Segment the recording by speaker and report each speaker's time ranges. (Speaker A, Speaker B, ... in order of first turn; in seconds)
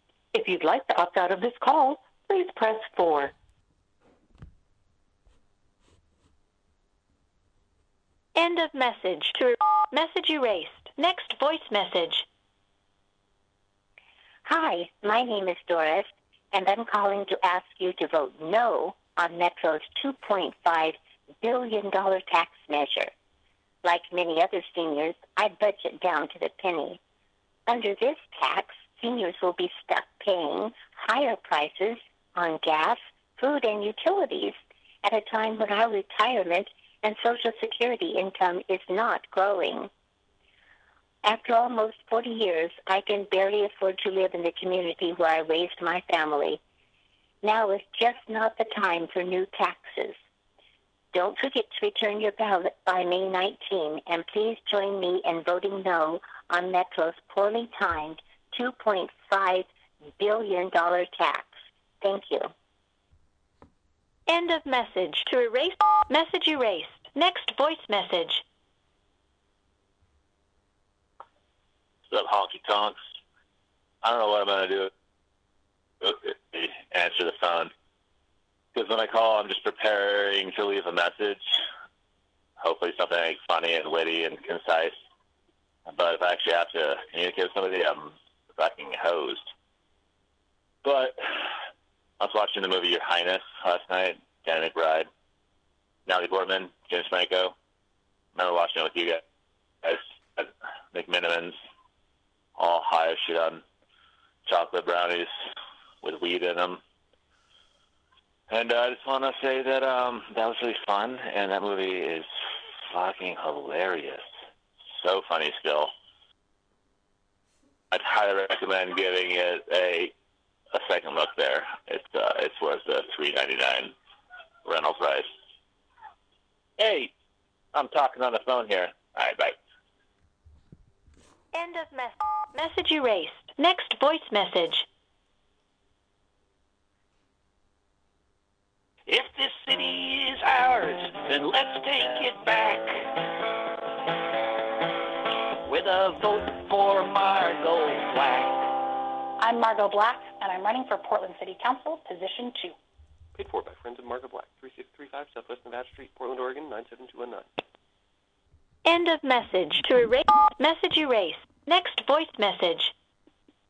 Speaker A: 0.3-3.3
Speaker B: 8.3-12.2, 64.3-68.4, 131.5-134.8, 158.8-162.9
Speaker C: 14.4-23.1, 23.8-27.0, 27.7-39.9, 41.2-46.6, 47.4-50.1, 51.1-59.7, 60.2-61.5, 62.0-62.5
Speaker D: 72.1-73.0, 74.0-74.9, 76.0-77.7, 78.7-81.4, 82.6-84.9, 85.9-89.5, 90.8-91.5, 92.2-95.1, 96.1-97.5, 98.3-99.2, 99.8-101.6, 102.6-103.6, 104.5-105.3, 106.0-106.8, 108.5-112.3, 112.9-114.2, 114.9-115.9, 117.9-120.1, 120.7-123.9, 124.6-125.3, 126.8-127.1, 127.7-129.6
Speaker E: 139.1-143.1, 145.7-148.7
Speaker F: 149.4-152.7
Speaker G: 153.3-157.5